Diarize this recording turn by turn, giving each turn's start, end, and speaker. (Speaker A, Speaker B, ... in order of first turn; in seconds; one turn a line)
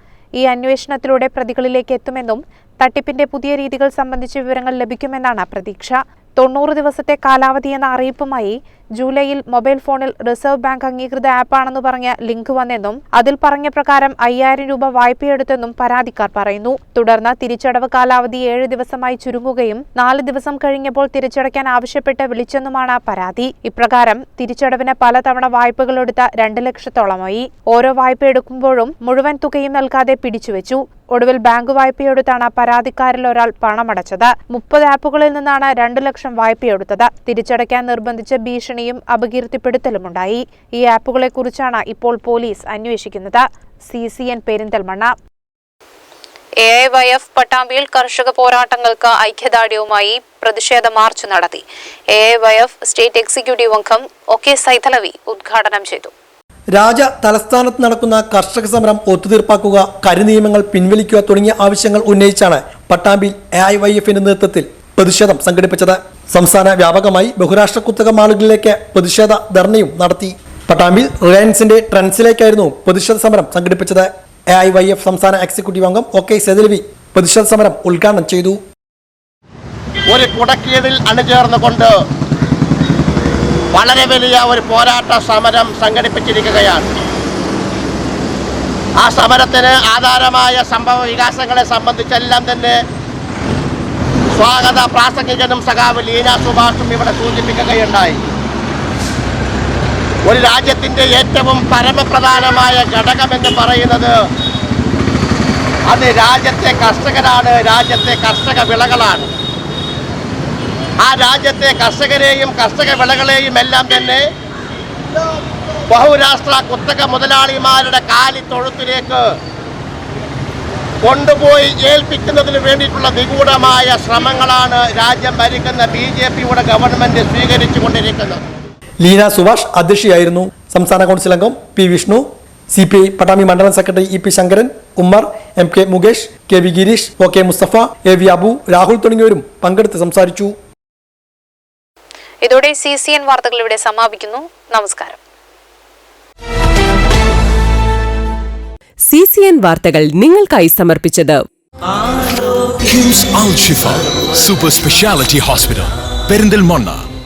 Speaker A: 0.4-45.1
Speaker A: 46.6-56.1
Speaker B: 56.7-78.6
Speaker C: 80.1-81.9
Speaker C: 83.7-86.9
Speaker C: 89.0-92.8
Speaker C: 94.4-98.2
Speaker C: 100.3-104.1
Speaker C: 105.9-109.3
Speaker C: 111.0-114.2
Speaker C: 115.9-119.2
Speaker C: 121.0-128.4
Speaker B: 129.0-140.6
Speaker A: 142.4-145.2
Speaker D: 149.1-151.4
Speaker E: 152.8-157.1